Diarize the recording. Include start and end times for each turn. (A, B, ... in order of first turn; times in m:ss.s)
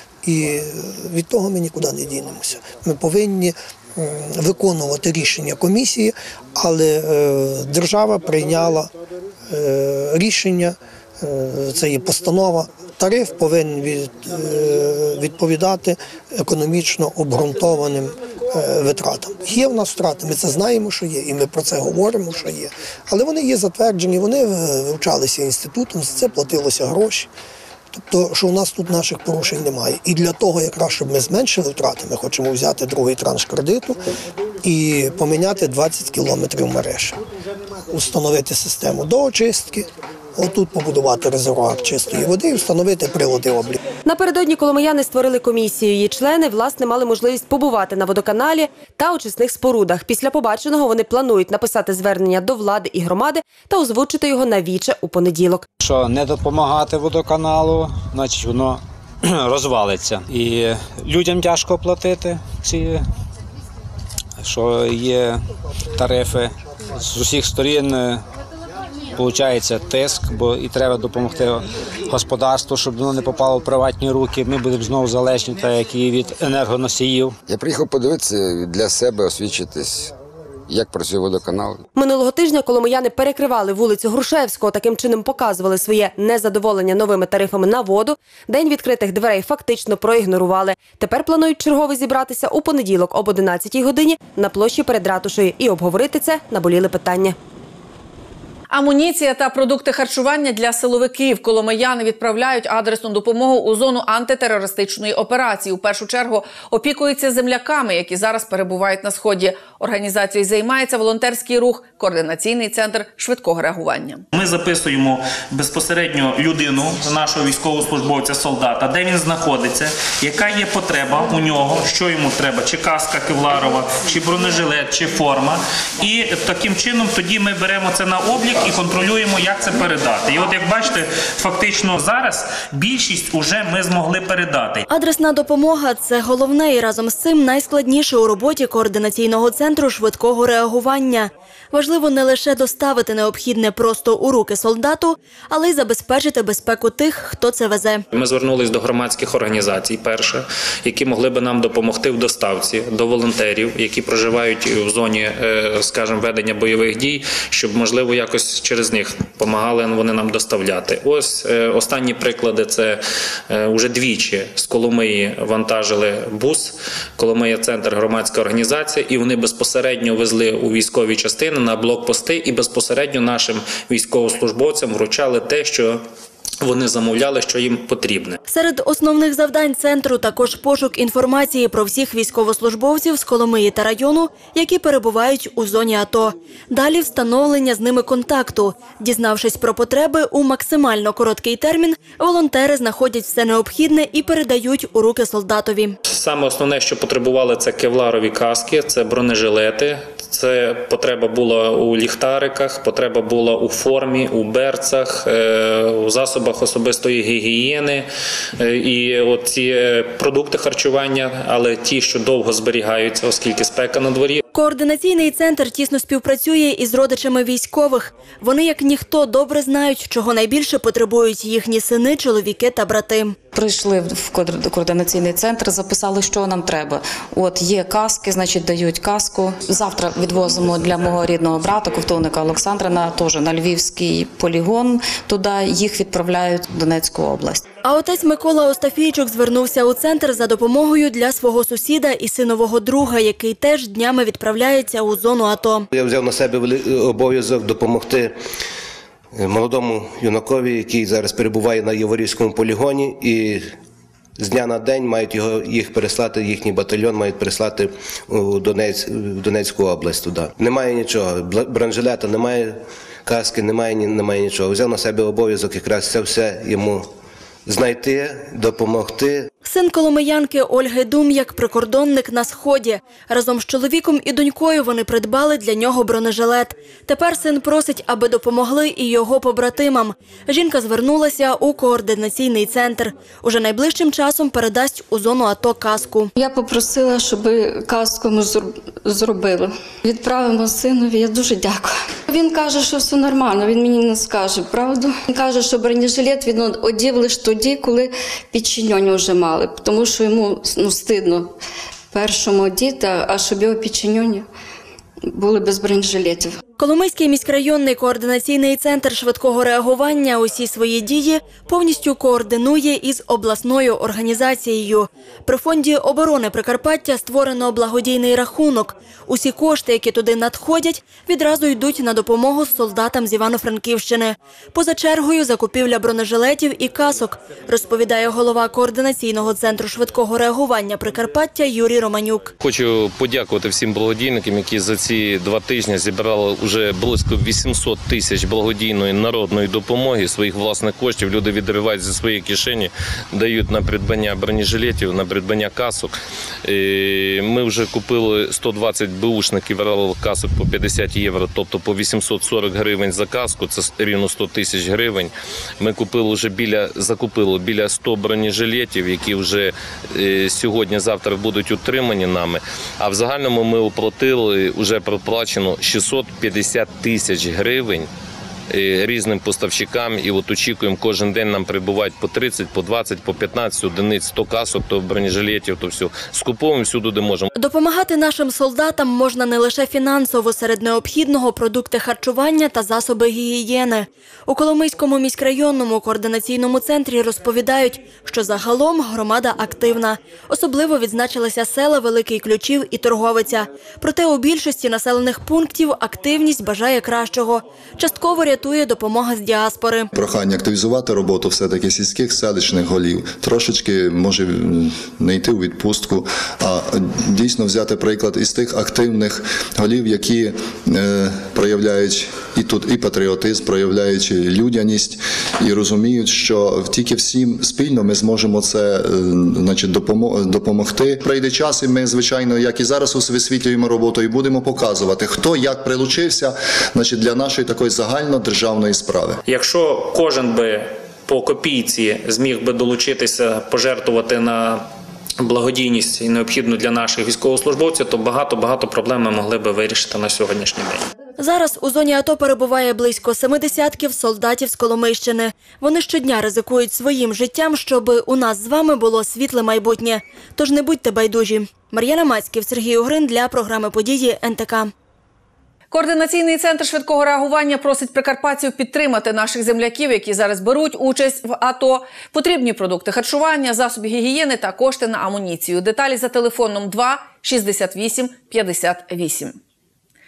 0:00.2-0:08.9 A
0:09.5-0:27.3 A
0:27.9-0:34.0 A
0:34.6-0:37.2 A
0:37.9-0:43.8 A
0:44.0-0:55.7 B
0:55.8-1:03.0 C
1:04.4-1:05.4 C
1:06.0-1:08.2 C
1:09.2-1:17.4 C
1:17.5-1:20.1 D
1:20.7-1:21.8 D
1:22.0-1:37.4 B
1:38.7-1:54.2 E
1:54.3-2:14.8 F
2:14.9-2:28.0 G
2:28.1-2:56.0 F
2:56.6-2:58.4 F
2:58.5-3:16.0 G
3:16.1-3:34.4 F
3:34.5-3:43.4 G
3:43.5-3:57.6 H
3:57.8-4:05.9 G
4:05.9-4:08.4 I
4:09.4-4:13.7 I
4:14.4-4:27.1 I
4:27.7-4:29.5 I
4:29.6-4:46.3 G
4:46.4-5:01.5 J
5:02.1-5:04.5 J
5:05.3-5:06.5 J
5:06.8-5:32.5 G
5:32.6-5:46.1 K
5:46.6-6:08.1 K
6:08.7-6:17.5 K
6:17.6-6:40.1 G
6:40.1-7:09.4 L
7:09.5-7:14.9 F
7:15.4-7:21.1 F
7:21.4-7:34.9 G
7:35.9-7:49.6 E